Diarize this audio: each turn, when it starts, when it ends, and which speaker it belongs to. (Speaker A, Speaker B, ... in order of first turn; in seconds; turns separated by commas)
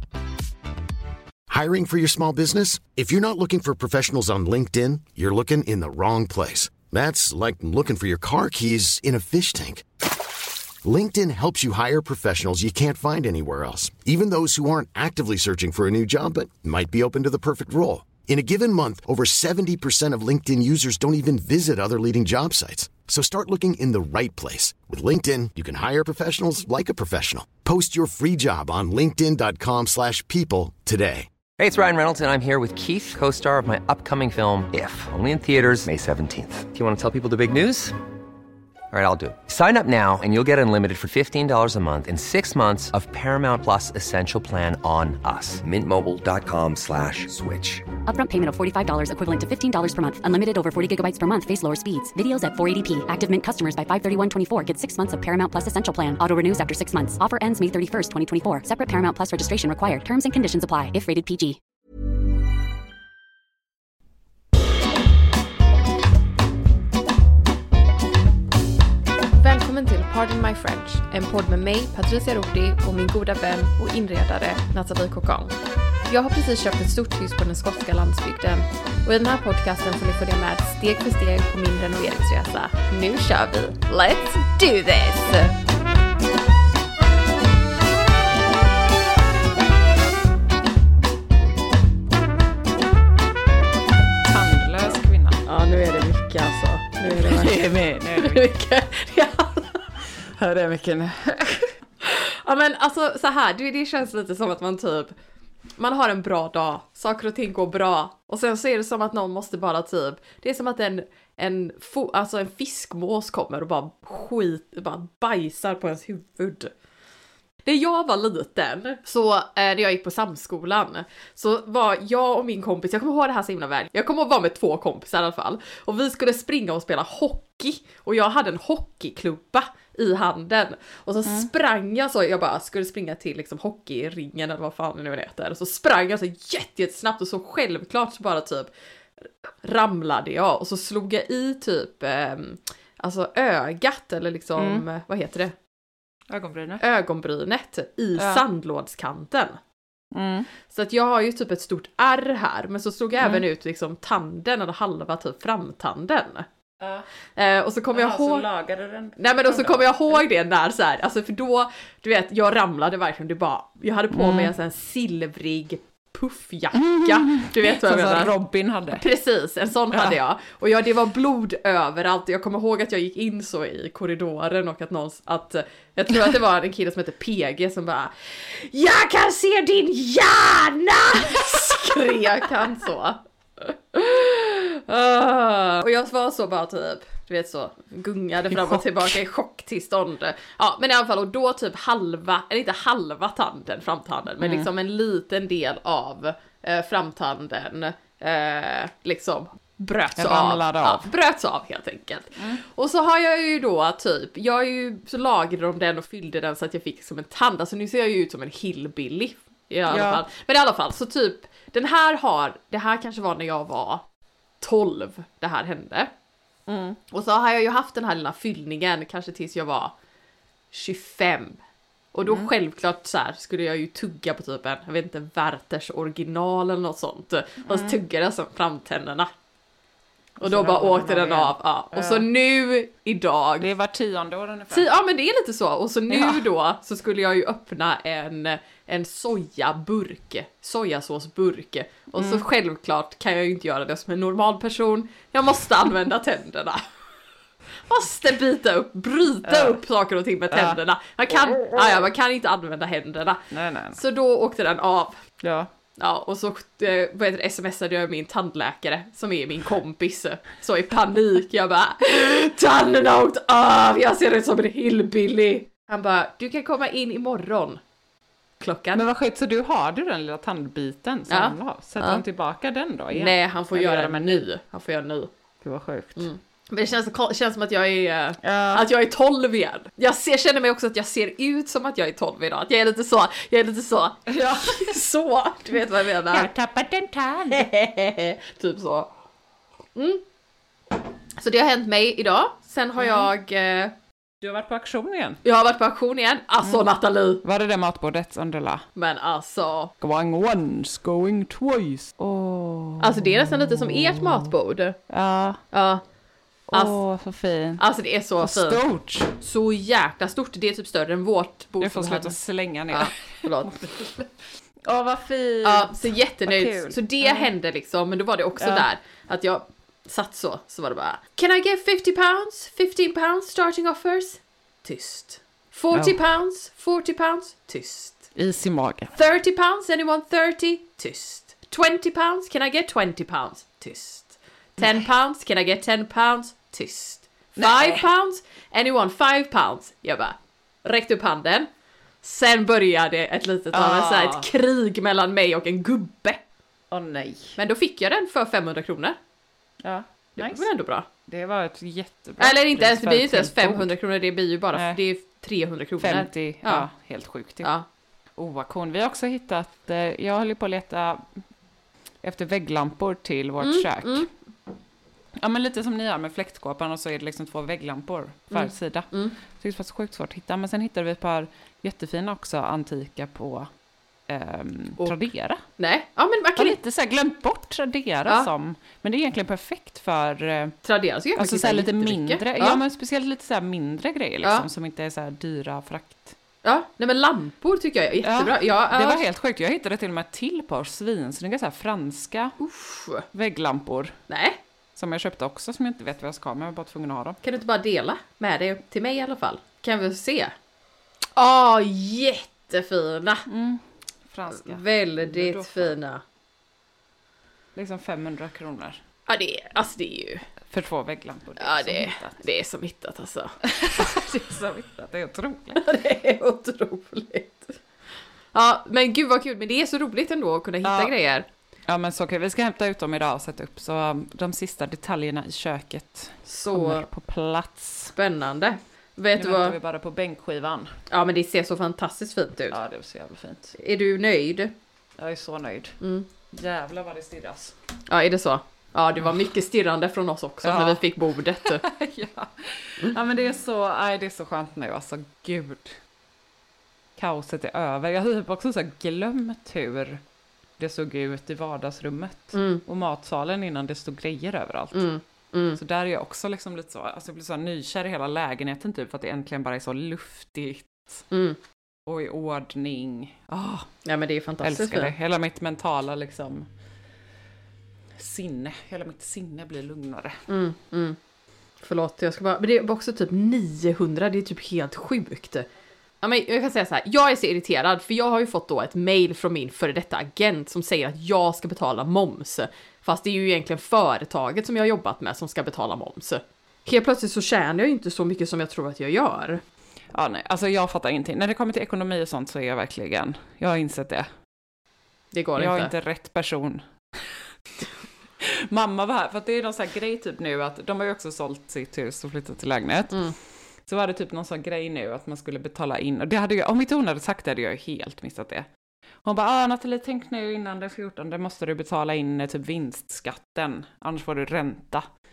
Speaker A: 1.5-9.8, Speaker A: 10.8-31.3, Speaker B: 31.6-38.0, Speaker B: 38.9-47.9, Speaker C: 48.1-61.6, Speaker D: 69.4-85.6, Speaker E: 94.2-95.4, Speaker D: 95.5-99.9, Speaker E: 97.1-98.5, Speaker E: 100.2-101.7, Speaker D: 102.0-105.2, Speaker D: 105.8-116.7, Speaker D: 117.7-138.7, Speaker D: 139.4-145.5, Speaker E: 144.6-144.8, Speaker E: 146.3-146.8, Speaker D: 146.8-149.6, Speaker E: 148.2-148.4, Speaker E: 150.1-150.5, Speaker D: 150.7-156.5, Speaker E: 156.8-157.1, Speaker D: 157.4-158.5, Speaker E: 157.9-160.2, Speaker D: 159.2-168.3, Speaker E: 164.1-164.5, Speaker E: 166.7-169.0, Speaker D: 168.9-214.0, Speaker E: 169.9-170.2, Speaker E: 188.5-188.8, Speaker E: 194.4-194.7, Speaker E: 200.2-201.1, Speaker E: 209.9-210.2, Speaker D: 214.6-216.1, Speaker E: 216.7-217.0, Speaker D: 217.1-219.9, Speaker D: 220.7-221.6, Speaker D: 222.1-229.3, Speaker E: 227.7-228.0, Speaker E: 230.4-232.3, Speaker D: 230.4-233.7, Speaker E: 233.6-234.9, Speaker D: 234.7-246.9, Speaker E: 236.1-236.4, Speaker E: 242.2-242.4, Speaker D: 247.9-253.4, Speaker E: 249.4-249.8, Speaker E: 250.5-250.8, Speaker E: 251.3-252.1, Speaker E: 253.5-254.0, Speaker D: 254.0-255.2, Speaker E: 255.4-255.7, Speaker D: 256.0-267.8, Speaker D: 268.6-269.0, Speaker E: 268.9-274.4, Speaker D: 271.3-272.2, Speaker D: 273.1-275.3, Speaker E: 275.6-276.3, Speaker D: 276.2-286.5, Speaker E: 278.4-278.9, Speaker E: 284.3-285.0, Speaker E: 286.3-287.7, Speaker D: 287.5-289.1, Speaker D: 290.0-290.2, Speaker D: 291.4-293.9, Speaker E: 293.0-293.3, Speaker E: 294.4-295.4, Speaker D: 295.4-297.4, Speaker E: 297.4-298.9, Speaker D: 299.0-299.9, Speaker E: 300.0-304.5, Speaker D: 303.0-305.0, Speaker E: 305.1-305.6, Speaker D: 305.7-306.0, Speaker E: 306.7-307.8, Speaker D: 306.7-307.0, Speaker D: 307.8-308.8, Speaker E: 308.4-309.3, Speaker D: 309.4-312.4, Speaker E: 311.8-314.3, Speaker D: 312.9-313.7, Speaker E: 314.9-317.5, Speaker D: 315.6-328.3, Speaker E: 318.6-318.9, Speaker E: 328.4-329.1, Speaker D: 329.1-341.7, Speaker E: 334.8-335.1, Speaker E: 337.6-338.1, Speaker D: 342.2-346.4, Speaker E: 343.7-344.5, Speaker E: 346.9-347.6, Speaker D: 347.6-349.2, Speaker E: 349.8-350.7, Speaker D: 350.4-351.1, Speaker E: 351.3-353.9, Speaker D: 352.4-356.9, Speaker E: 354.7-355.0, Speaker E: 356.0-357.7, Speaker E: 358.4-361.3, Speaker E: 362.2-364.3, Speaker D: 363.6-364.3, Speaker E: 365.4-373.7, Speaker D: 368.5-369.4, Speaker E: 374.3-375.6, Speaker D: 375.8-376.8, Speaker E: 376.6-380.8, Speaker D: 380.8-382.8, Speaker E: 381.4-386.4, Speaker D: 386.6-389.2, Speaker E: 388.2-392.6, Speaker D: 392.6-393.2, Speaker E: 393.3-394.2, Speaker D: 394.3-394.6, Speaker E: 395.0-397.4, Speaker D: 397.4-400.5, Speaker D: 401.4-403.5, Speaker E: 403.5-406.0, Speaker D: 404.5-406.2, Speaker E: 407.8-409.0, Speaker D: 409.3-410.5, Speaker E: 410.7-412.4, Speaker D: 411.6-414.1, Speaker E: 413.6-415.8, Speaker D: 415.8-417.8, Speaker D: 418.5-421.5, Speaker E: 420.8-421.1, Speaker E: 421.9-428.1, Speaker D: 426.5-427.0, Speaker D: 428.2-429.8, Speaker E: 429.4-430.9, Speaker D: 431.1-432.8, Speaker E: 432.7-433.8, Speaker D: 433.8-434.7, Speaker E: 435.2-436.0, Speaker D: 436.0-436.3, Speaker E: 436.5-437.8, Speaker D: 438.1-441.8, Speaker E: 440.6-441.0, Speaker E: 441.6-446.0, Speaker E: 447.2-450.2, Speaker E: 450.8-455.1, Speaker D: 452.5-452.8, Speaker D: 454.9-455.8, Speaker E: 455.8-461.2, Speaker D: 461.3-461.6, Speaker E: 462.1-463.9, Speaker D: 464.1-465.1, Speaker E: 464.6-466.7, Speaker E: 468.2-470.4, Speaker D: 470.5-471.2, Speaker D: 471.8-475.7, Speaker D: 476.2-489.6, Speaker E: 490.1-494.3, Speaker D: 495.3-495.9, Speaker E: 495.6-497.2, Speaker E: 498.4-503.3, Speaker E: 503.9-508.7, Speaker E: 509.2-515.0